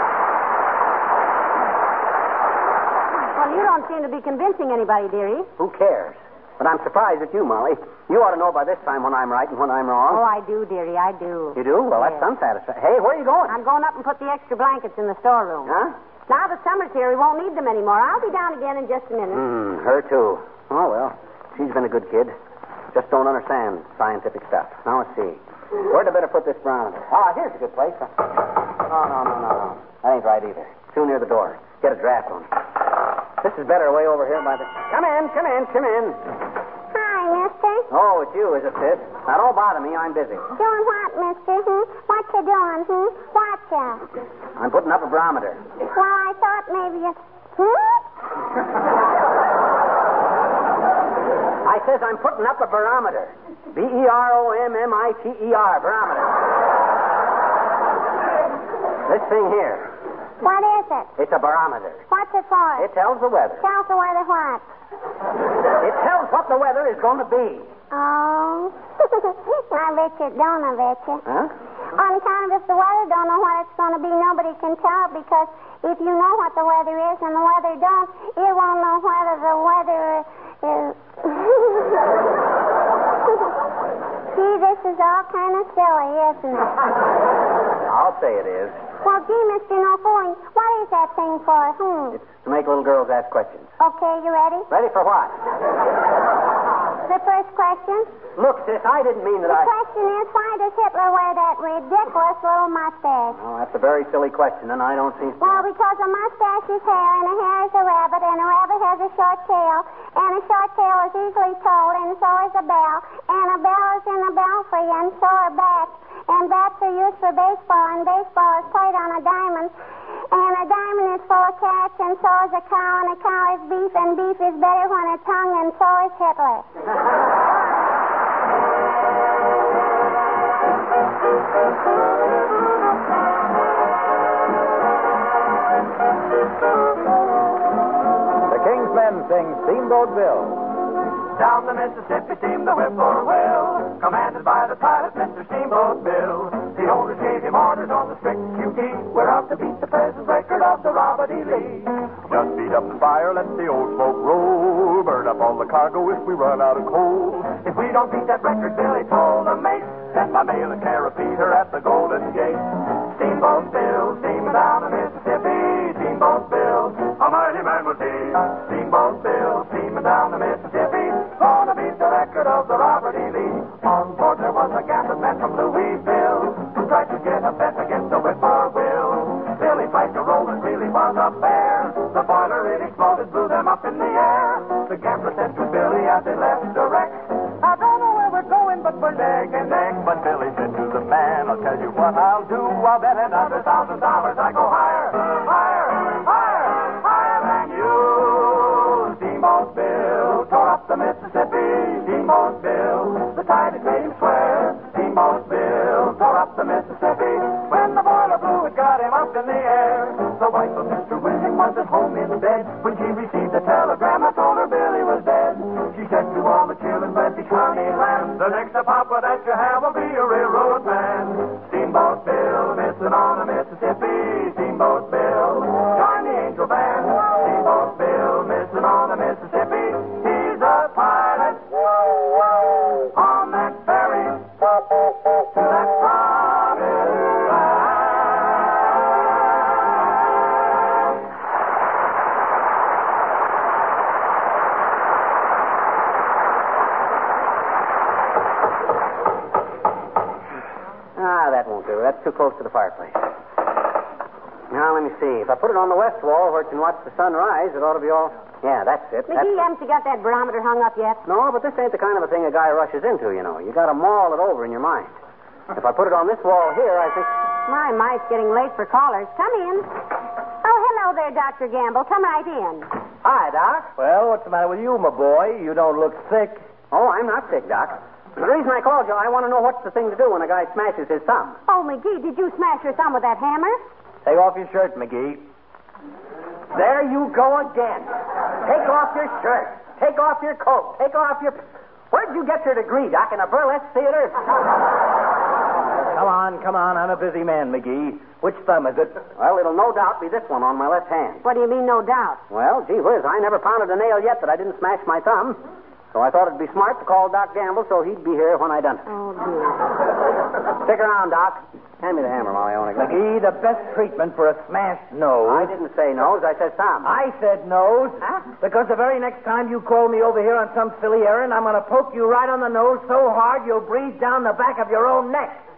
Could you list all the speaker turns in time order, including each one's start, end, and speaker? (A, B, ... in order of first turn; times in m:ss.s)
0:03.3-0:05.5 A
0:05.6-0:10.2 B
0:10.1-0:12.2 A
0:11.6-0:13.6 B
0:13.5-0:15.8 A
0:15.6-0:15.9 B
0:16.3-0:19.4 A
0:19.3-0:22.3 B
0:22.9-0:28.1 B
0:28.9-0:32.5 B
0:33.4-0:36.2 B
0:36.9-0:37.9 C
0:37.9-0:40.4 B
0:40.6-0:44.0 C
0:44.6-0:45.6 B
0:45.9-0:48.0 C
0:51.6-0:56.4 B
0:59.0-0:59.9 B
1:00.4-1:01.1 C
1:01.2-1:02.0 B
1:02.1-1:02.9 C
1:02.8-1:03.6 B
1:03.6-1:04.6 C
1:05.8-1:07.7 B
1:07.9-1:11.2 C
1:11.9-1:22.0 C
1:24.3-1:26.7 C
1:27.9-1:28.8 B
1:29.0-1:32.2 C
1:32.1-1:33.7 B
1:33.8-1:34.7 C
1:34.7-1:35.3 B
1:37.1-1:38.1 C
1:38.4-1:39.7 B
1:39.4-1:43.4 C
1:43.4-1:45.6 B
1:45.4-1:59.7 C
2:00.3-2:06.6 C
2:18.4-2:20.7 D
2:21.3-3:52.0 E
3:53.1-3:54.8 E
3:55.3-3:58.0 E
4:11.2-4:13.2 B
4:14.7-4:19.6 B
4:19.3-4:21.2 A
4:21.2-4:25.1 B
4:25.7-4:27.3 B
4:27.7-4:29.9 A
4:30.6-4:32.9 A
4:33.2-4:33.9 B
4:33.9-4:36.6 F
4:36.9-4:41.6 B
4:41.7-4:43.8 A
4:44.2-4:45.4 F
4:46.7-4:48.1 F
4:48.6-4:51.6 B
4:52.1-4:54.4 B
4:56.1-4:59.2 F
4:59.4-5:01.4 B
5:01.4-5:02.4 A
5:02.5-5:05.6 B
5:06.1-5:09.0 B
5:09.1-5:09.8 A
5:10.7-5:13.2 B
5:13.0-5:15.7 F
5:15.4-5:17.1 B
5:17.0-5:25.6 F